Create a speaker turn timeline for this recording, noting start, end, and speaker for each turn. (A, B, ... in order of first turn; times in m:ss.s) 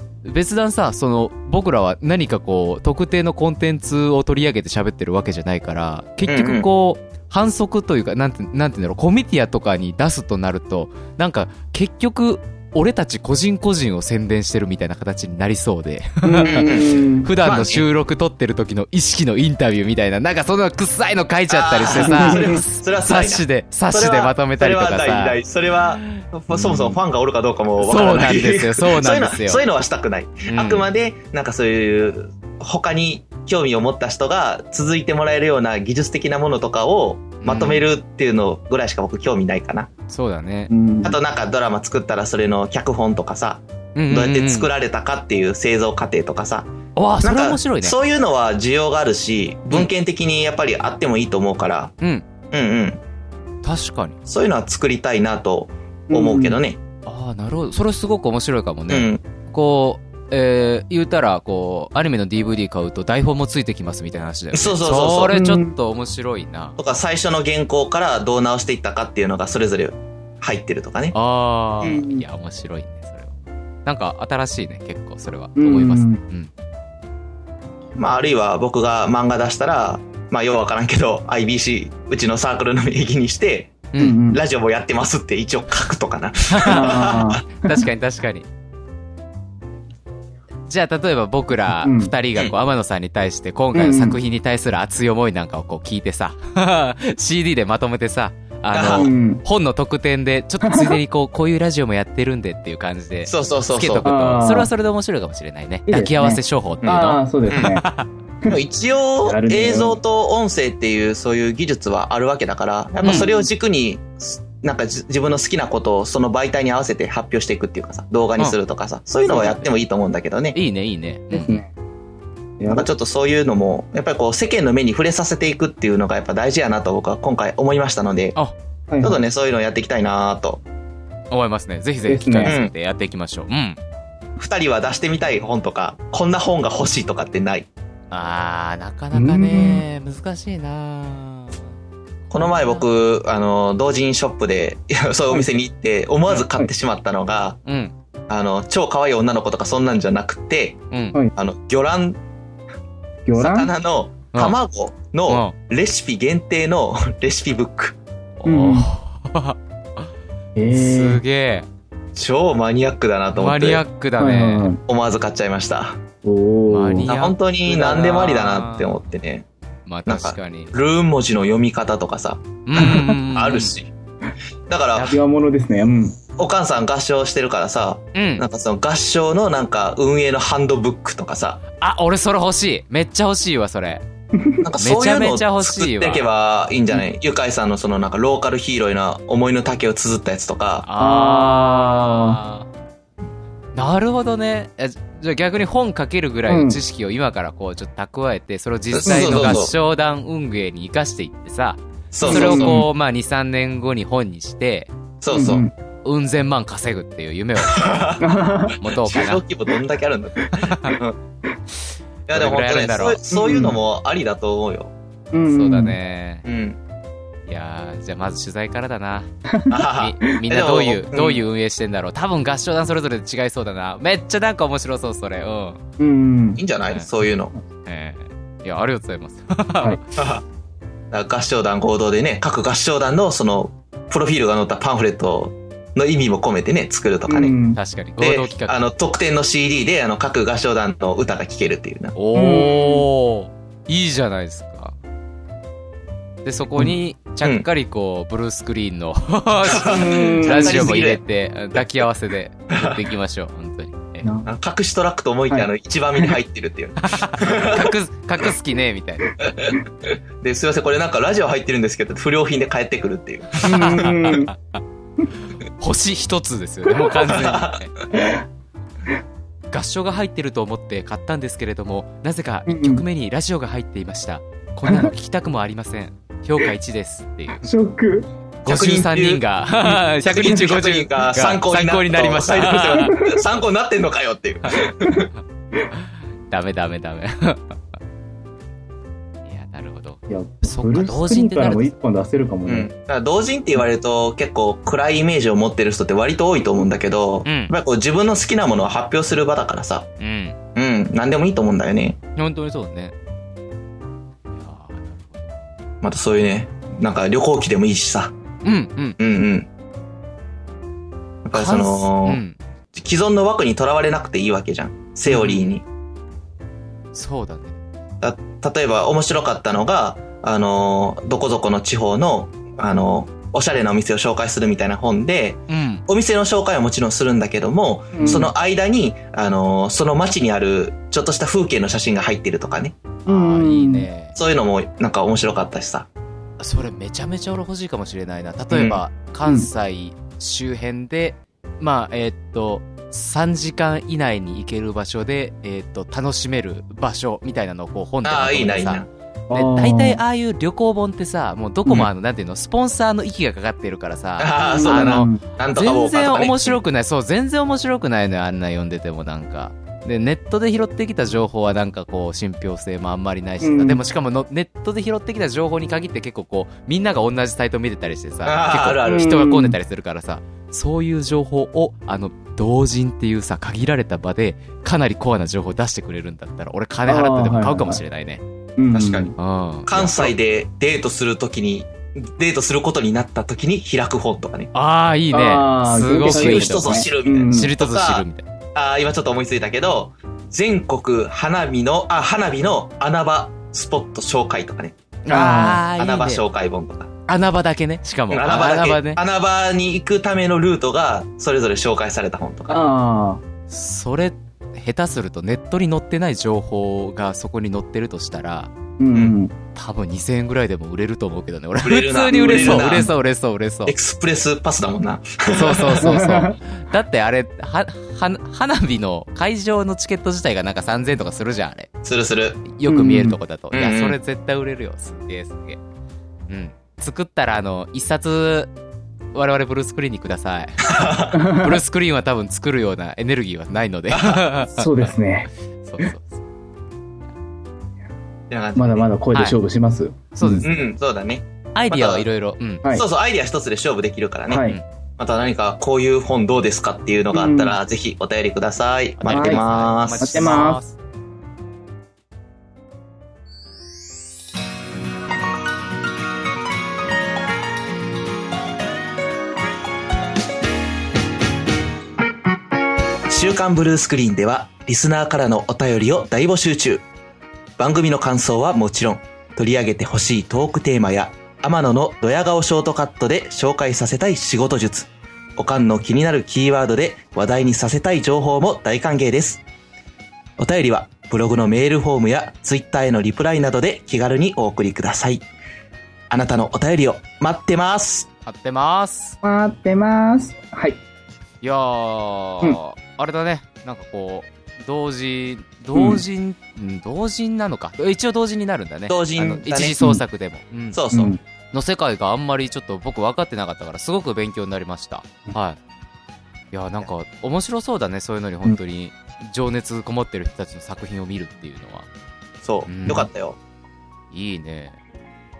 0:00.2-0:25.4 A
0:06.2-0:06.7 B
0:16.2-0:17.3 C
0:16.5-0:17.8 B
0:21.5-0:39.9 B
0:22.0-0:22.6 C
0:26.0-0:27.0 A
0:27.8-0:29.6 A
0:30.5-0:30.8 A
0:37.4-0:37.8 A
0:40.1-0:40.7 A
0:40.7-0:41.2 C
0:41.0-0:46.7 B
0:43.9-0:44.7 A
0:47.0-0:48.0 A
0:47.2-0:51.9 B
0:52.5-0:53.0 B
0:53.6-0:54.2 A
0:54.2-0:56.8 B
0:56.1-0:56.6 C
0:57.0-1:06.8 A
0:58.9-0:59.2 B
1:04.5-1:05.4 B
1:05.3-1:05.7 C
1:06.8-1:11.1 B
1:11.1-1:13.3 A
1:11.8-1:12.2 C
1:13.8-1:16.5 A
1:15.6-1:16.2 C
1:18.0-1:27.4 B
1:23.9-1:24.2 A
1:24.0-1:24.4 C
1:26.5-1:28.5 A
1:26.6-1:27.7 C
1:30.7-1:48.1 A
1:31.8-1:32.1 C
1:33.7-1:34.2 C
1:38.7-1:39.1 B
1:39.0-1:39.4 C
1:40.6-1:41.0 C
1:43.2-1:44.1 B
1:44.0-1:44.7 C
1:45.9-1:47.8 C
1:46.8-1:47.7 B
1:48.5-2:00.6 B
1:49.2-1:50.0 C
1:53.0-1:53.3 A
1:53.1-1:53.5 C
1:59.3-1:59.5 C
1:59.4-1:59.7 A
2:00.5-2:01.6 A
2:01.3-2:01.7 C
2:02.6-2:02.9 C
2:02.7-2:08.4 B
2:08.9-2:09.2 C
2:09.0-2:10.6 B
2:11.3-2:13.8 A
2:12.1-2:12.5 C
2:12.4-2:12.7 B
2:14.4-2:17.7 B
2:18.1-2:21.7 A
2:19.1-2:19.8 C
2:22.3-2:27.6 B
2:22.4-2:22.8 A
2:27.6-2:27.9 A
2:28.3-2:30.8 B
2:30.9-2:31.2 A
2:31.4-2:32.2 B
2:33.2-2:33.7 C
2:33.4-2:38.0 B
2:35.3-2:35.5 A
2:38.4-2:40.0 A
2:38.4-2:38.9 C
2:40.6-2:41.2 C
2:40.7-2:41.7 A
2:42.1-2:43.8 B
2:43.3-2:44.7 A
2:44.2-2:44.8 C
2:44.9-2:46.0 B
2:46.2-2:47.1 C
2:46.7-2:49.0 A
2:47.0-2:49.4 B
2:49.9-2:50.7 A
2:50.1-2:53.9 B
2:52.6-2:53.7 A
2:54.7-2:55.1 B
2:54.9-2:55.2 A
2:55.1-2:56.2 C
2:56.4-3:01.6 B
2:58.1-2:58.4 A
3:01.8-3:04.0 A
3:04.3-3:04.6 C
3:04.6-3:10.8 B
3:04.8-3:06.2 A
3:10.8-3:12.7 A
3:11.0-3:12.4 C
3:13.7-3:24.9 A
3:16.5-3:16.8 C
3:19.0-3:19.7 B
3:19.0-3:19.6 C
3:22.1-3:22.8 B
3:22.2-3:22.9 C
3:25.2-3:25.6 B
3:25.3-3:25.7 C
3:26.0-3:28.0 A
3:27.7-3:28.3 B
3:28.2-3:28.8 C
3:28.8-3:29.4 A
3:29.0-3:31.2 B
3:30.5-3:31.0 A
3:32.3-3:34.9 B
3:32.3-3:33.2 A
3:33.3-3:33.8 C
3:35.3-3:36.0 C
3:35.4-3:36.4 A
3:36.4-3:36.8 B
3:37.5-3:39.3 A
3:39.5-3:39.9 C
3:39.7-3:41.4 B
3:40.0-3:45.8 A
3:46.0-3:46.6 C
3:46.6-3:47.5 B
3:47.8-3:50.0 A
3:50.1-3:50.4 B
3:51.1-3:57.5 B
3:57.3-3:57.8 C
3:57.7-3:58.8 A
3:58.2-4:02.2 B
4:02.2-4:04.9 A
4:02.3-4:03.0 C
4:06.4-4:14.3 A
4:09.7-4:11.2 B
4:09.9-4:11.0 C
4:12.7-4:13.0 B
4:14.2-4:14.5 C
4:14.4-4:17.9 B
4:15.5-4:16.4 C
4:17.0-4:19.3 A
4:19.4-4:19.8 B
4:20.4-4:24.2 B
4:23.6-4:24.8 A
4:23.6-4:24.5 C
4:25.4-4:27.9 A
4:27.1-4:27.9 B
4:28.1-4:28.4 C
4:29.7-4:37.7 A
4:32.7-4:33.0 C
4:37.6-4:38.3 C
4:38.6-4:43.2 A
4:38.7-4:39.4 B
4:40.2-4:45.2 B
4:42.9-4:43.4 C
4:44.6-4:45.1 A
4:45.9-4:47.7 A
4:49.4-4:51.9 A
4:50.3-4:52.9 C
4:52.6-5:00.1 B
4:57.4-4:57.7 A
5:00.2-5:00.6 A
5:00.7-5:02.2 B
5:02.4-5:03.1 A
5:04.5-5:05.5 A
5:06.0-5:08.3 B
5:08.6-5:09.2 A
5:09.2-5:09.7 B
5:11.4-5:12.4 B
5:11.5-5:12.6 A
5:12.9-5:15.8 B
5:15.3-5:15.7 A
5:17.1-5:17.8 A
5:18.2-5:33.0 B
5:25.7-5:26.0 A
5:28.1-5:28.5 C
5:33.2-5:34.4 A
5:33.3-5:34.1 C
5:34.3-5:36.1 B
5:36.6-6:18.4 A
5:38.7-5:39.0 B
5:48.2-5:49.1 B
5:49.5-5:50.2 C
5:54.4-5:56.8 B
5:54.6-5:55.4 C
6:03.6-6:04.0 C
6:08.4-6:09.4 B
6:09.0-6:09.8 C
6:17.0-6:18.0 C
6:18.8-6:19.3 C
6:18.9-6:19.3 B
6:19.4-6:20.3 A
6:19.9-6:24.7 B
6:24.7-6:28.5 A
6:25.3-6:27.7 C
6:26.1-6:35.0 B
6:35.2-6:36.4 A
6:35.3-6:35.8 C
6:36.0-6:37.1 B
6:37.3-6:39.2 A
6:38.3-6:42.8 B
6:42.7-6:43.4 C
6:43.7-6:48.7 A
6:49.0-6:49.5 C
6:49.7-6:53.9 A
6:51.8-6:53.1 B
6:52.3-6:53.1 C
6:53.9-6:56.2 B
6:55.5-7:01.9 A
6:56.0-6:56.6 C
7:02.0-7:02.6 B
7:02.7-7:05.8 A
7:02.9-7:03.4 C
7:03.7-7:04.2 B
7:06.5-7:08.7 A
7:09.3-7:15.1 A
7:10.8-7:11.4 B
7:11.3-7:11.8 C
7:14.1-7:14.4 B
7:14.7-7:15.5 C
7:15.8-7:16.4 A
7:18.5-7:19.1 B
7:18.8-7:20.6 C
7:20.3-7:20.8 A
7:20.6-7:22.2 B
7:21.8-7:22.8 A
7:22.9-7:24.6 B
7:24.5-7:24.8 C
7:25.2-7:30.6 B
7:27.3-7:27.8 C
7:29.2-7:31.0 A
7:29.3-7:29.6 C
7:30.2-7:30.8 C
7:43.3-7:47.0 B
7:47.8-7:59.6 B
8:00.6-8:05.4 B
8:06.3-8:08.3 B
8:08.4-8:09.4 A
8:09.4-8:11.0 C
8:11.6-8:21.0 A
8:15.9-8:16.2 C
8:19.1-8:20.0 B
8:20.9-8:21.3 B
8:21.1-8:21.4 C
8:21.7-8:25.8 A
8:26.7-8:32.1 A
8:32.6-8:33.6 B
8:32.8-8:33.3 A
8:34.3-8:35.0 A